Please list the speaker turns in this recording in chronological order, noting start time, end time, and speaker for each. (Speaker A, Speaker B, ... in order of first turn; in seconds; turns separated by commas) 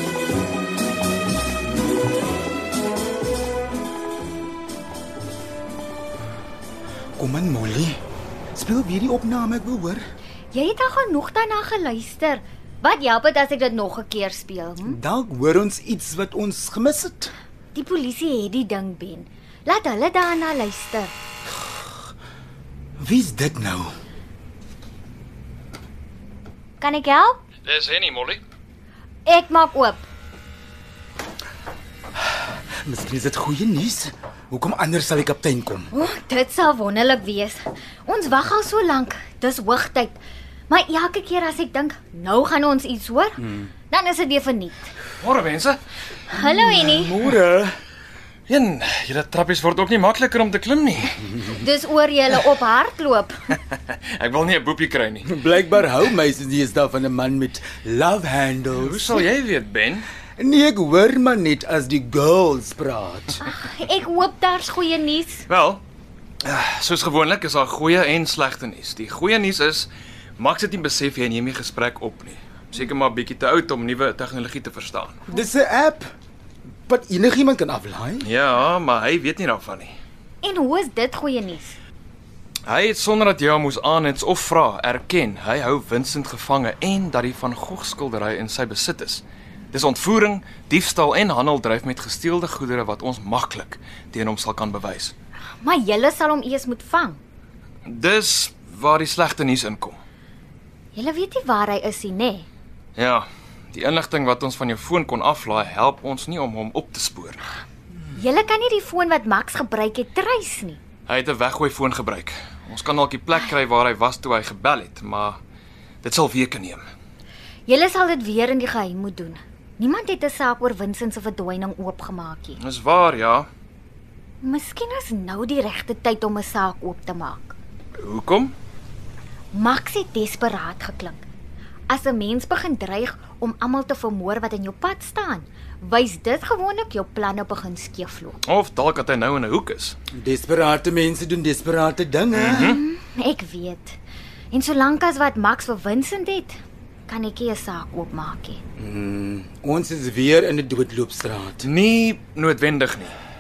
Speaker A: 7.2-8.0, Speaker A: 8.5-10.0, Speaker B: 10.5-15.0, Speaker A: 14.8-17.3, Speaker B: 17.7-21.1, Speaker A: 23.0-23.9, Speaker B: 26.8-27.4, Speaker C: 27.6-28.4, Speaker B: 29.2-30.1, Speaker A: 32.2-35.9, Speaker B: 35.9-44.9, Speaker A: 43.4-43.7, Speaker C: 45.2-45.8, Speaker B: 46.3-47.1, Speaker A: 46.3-47.8, Speaker C: 48.5-51.2, Speaker B: 51.4-53.3, Speaker C: 53.7-55.3, Speaker A: 55.2-59.2, Speaker C: 58.7-60.1, Speaker A: 60.4-63.5, Speaker B: 63.4-65.4, Speaker C: 65.5-65.8, Speaker C: 66.4-75.2, Speaker A: 75.3-76.1, Speaker A: 76.9-78.3, Speaker C: 78.2-79.9, Speaker B: 80.4-81.8, Speaker C: 82.6-95.1, Speaker B: 95.6-97.2, Speaker C: 97.8-100.0, Speaker B: 100.9-102.5, Speaker C: 103.0-107.4, Speaker B: 108.1-110.8, Speaker C: 111.1-115.4, Speaker C: 116.0-116.8, Speaker B: 117.7-122.6, Speaker C: 122.6-123.5, Speaker B: 124.4-127.5, Speaker C: 128.0-128.5, Speaker B: 129.5-131.2, Speaker B: 131.9-138.4, Speaker C: 138.5-139.9, Speaker A: 140.1-142.8, Speaker C: 142.3-142.8, Speaker B: 142.5-144.0, Speaker B: 144.5-148.6, Speaker A: 148.8-151.7, Speaker C: 151.6-153.2